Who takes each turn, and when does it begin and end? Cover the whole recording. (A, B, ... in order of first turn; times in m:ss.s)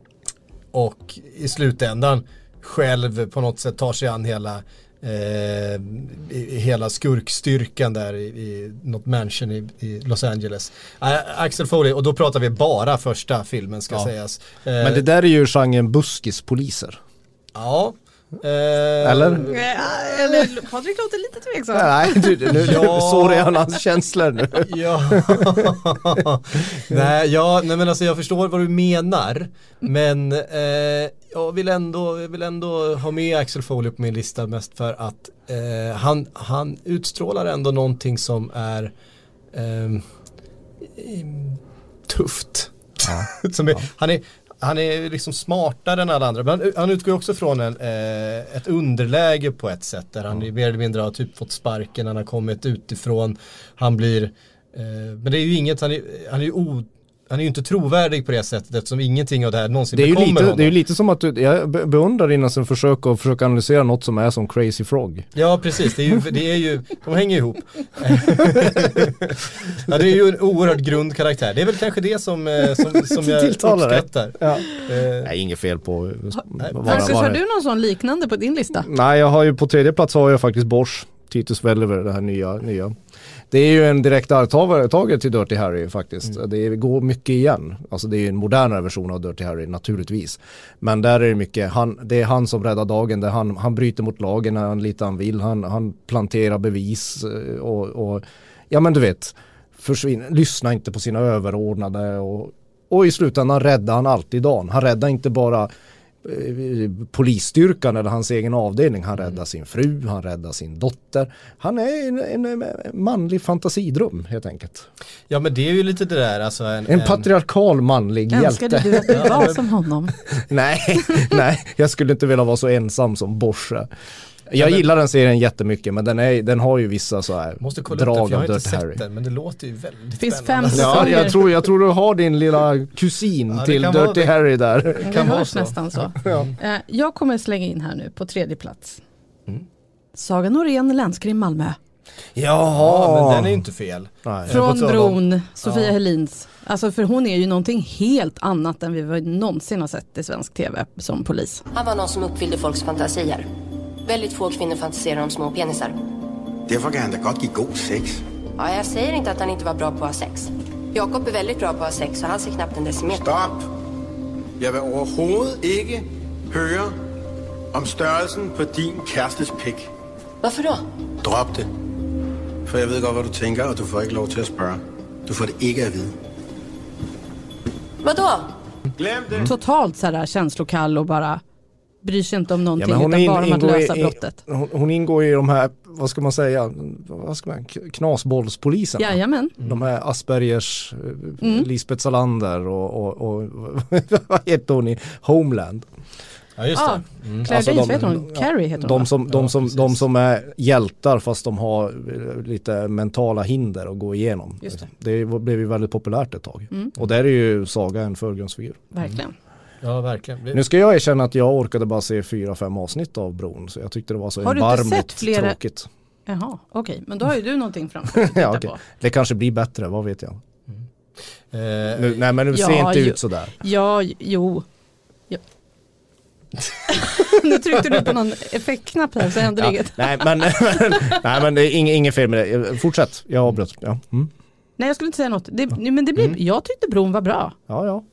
0:00.7-0:15.0 A
0:14.8-0:17.0 B
0:17.6-0:19.6 A
0:19.0-0:19.5 B
0:19.5-0:22.5 C
0:21.7-0:26.2 B
0:22.6-0:23.6 A
0:24.6-0:38.9 A
0:39.5-0:40.0 A
0:41.0-1:00.7 A
0:43.0-0:43.8 B
0:59.9-1:05.3 B
1:05.4-1:15.3 A
1:12.7-1:14.7 B
1:15.2-1:17.4 B
1:16.6-1:17.1 A
1:16.9-1:18.9 C
1:18.8-1:23.0 B
1:23.5-1:45.7 B
1:46.2-1:54.9 B
1:55.3-1:57.3 A
1:56.9-1:59.5 B
1:58.3-2:00.1 C
1:59.1-1:59.6 A
2:00.3-2:03.9 B
2:04.5-2:09.0 B
2:04.6-2:04.8 A
2:07.6-2:11.3 A
2:10.2-2:11.4 C
2:10.7-2:15.3 B
2:13.5-2:14.4 A
2:15.0-2:16.5 A
2:15.1-2:19.0 C
2:16.2-2:16.5 B
2:20.2-2:21.8 C
2:22.4-2:23.6 B
2:22.7-2:25.9 A
2:24.2-2:24.6 B
2:24.5-2:31.6 C
2:31.7-2:33.5 D
2:34.0-2:36.0 D
2:36.7-2:38.2 E
2:38.6-2:43.3 D
2:43.2-2:43.7 E
2:44.6-2:46.9 E
2:47.7-2:49.9 E
2:50.4-2:50.8 D
2:51.2-2:51.7 E
2:52.7-2:56.2 E
2:58.0-2:58.5 D
2:59.0-2:59.5 E
2:59.4-3:01.4 C
3:02.0-3:04.4 C
3:02.8-3:15.9 B
3:09.0-3:09.6 C
3:11.4-3:11.7 C
3:16.6-3:17.5 A
3:16.8-3:19.1 C
3:17.4-3:28.9 B
3:19.3-3:20.0 A
3:28.9-3:29.3 C
3:29.8-3:30.6 A
3:30.5-3:35.9 B
3:34.4-3:35.6 C
3:36.3-3:38.8 C
3:38.1-3:40.4 B
3:41.5-3:42.2 A
3:42.0-3:43.6 B
3:42.5-3:44.6 C
3:46.9-3:51.2 C
3:49.6-3:54.3 B
3:54.8-3:57.6 C
3:57.7-3:58.0 B